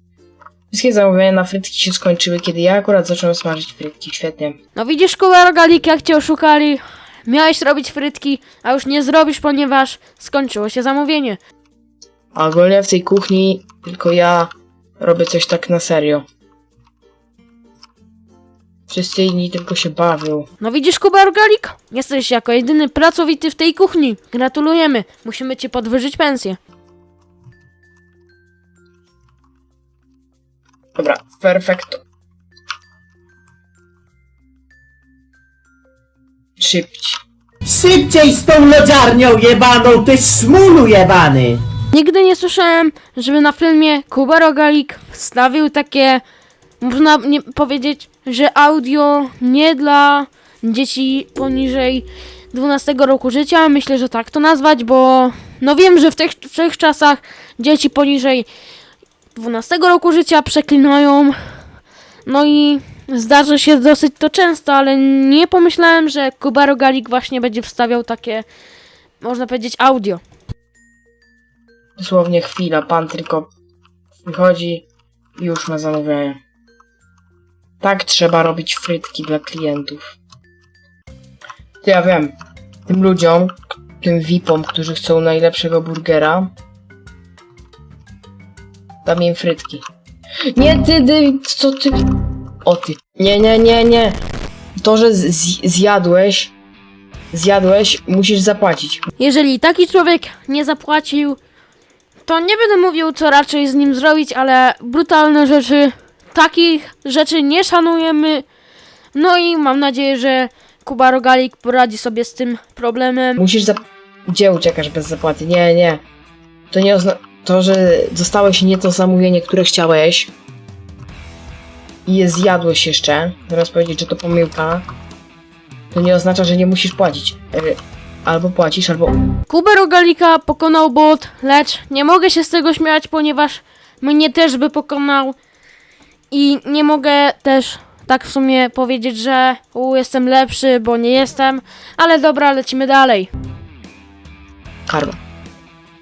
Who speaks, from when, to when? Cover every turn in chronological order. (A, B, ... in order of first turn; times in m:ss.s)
0:00.7-0:04.6 A
0:04.8-0:11.4 B
0:12.3-0:16.2 A
0:18.9-0:20.5 A
0:20.6-0:26.6 B
0:31.0-0:32.0 A
0:36.6-0:37.2 A
0:37.7-0:41.6 C
0:41.9-0:46.2 B
0:46.8-0:58.5 B
0:59.4-1:01.4 B
1:02.2-1:08.5 B
1:09.2-1:10.2 B
1:12.0-1:13.5 A
1:14.2-1:14.8 A
1:15.4-1:16.4 A
1:17.8-1:20.2 A
1:21.8-1:22.4 A
1:22.9-1:26.5 A
1:29.0-1:29.8 A
1:30.5-1:32.1 A
1:32.6-1:34.2 A
1:34.8-1:36.5 A
1:37.3-1:39.1 A
1:39.2-1:41.4 B
1:42.2-1:48.4 B
1:49.2-1:53.4 B
1:53.4-1:56.0 A
1:56.7-2:00.3 A
2:02.1-2:04.9 A
2:05.9-2:09.2 A
2:09.5-2:15.4 B
2:16.3-2:23.3 B
2:24.9-2:25.2 A